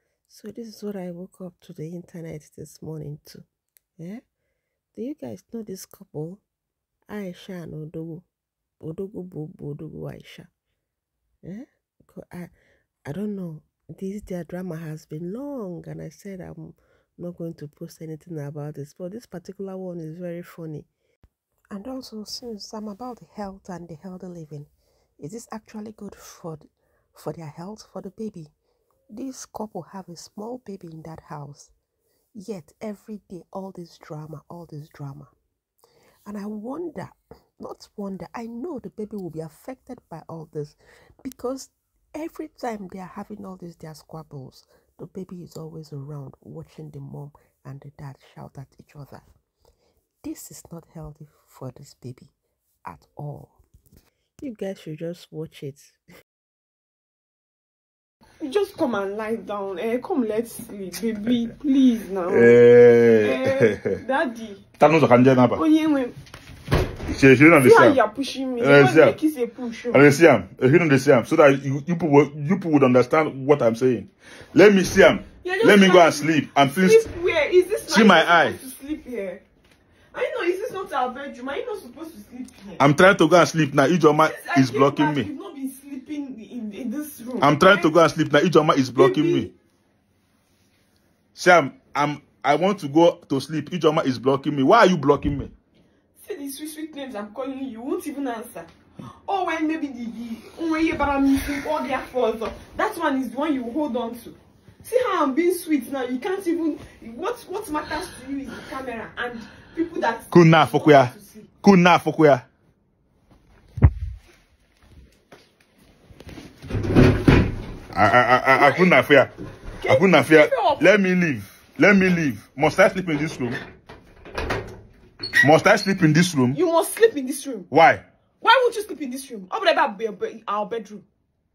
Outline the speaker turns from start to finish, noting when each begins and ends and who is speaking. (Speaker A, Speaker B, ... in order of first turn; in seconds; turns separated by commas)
Speaker A: 0.3-3.5, Speaker A: 4.9-6.4, Speaker A: 7.1-8.3, Speaker A: 8.8-10.5, Speaker A: 11.4-12.5, Speaker A: 13.1-20.9, Speaker A: 21.7-28.5, Speaker A: 29.1-31.7, Speaker A: 32.4-35.3, Speaker A: 36.3-49.2, Speaker A: 50.2-52.3, Speaker A: 52.9-53.6, Speaker A: 54.4-56.0, Speaker B: 58.4-62.6, Speaker C: 62.3-64.0, Speaker B: 63.2-64.6, Speaker C: 64.8-65.6, Speaker B: 65.5-66.2, Speaker C: 67.1-68.0, Speaker B: 67.6-70.1, Speaker C: 68.6-69.2, Speaker C: 69.9-77.0, Speaker B: 75.4-79.4, Speaker C: 77.9-78.6, Speaker B: 80.1-82.8, Speaker C: 82.8-85.3, Speaker B: 84.2-88.0, Speaker C: 87.4-89.5, Speaker B: 89.0-89.5, Speaker C: 91.4-95.5, Speaker B: 96.2-98.7, Speaker B: 99.2-111.5, Speaker C: 110.3-112.5, Speaker C: 117.9-119.3, Speaker B: 118.5-119.0, Speaker B: 119.8-120.9, Speaker C: 119.9-123.6, Speaker C: 125.4-126.6, Speaker B: 126.5-127.7, Speaker C: 127.7-128.0, Speaker B: 128.4-131.0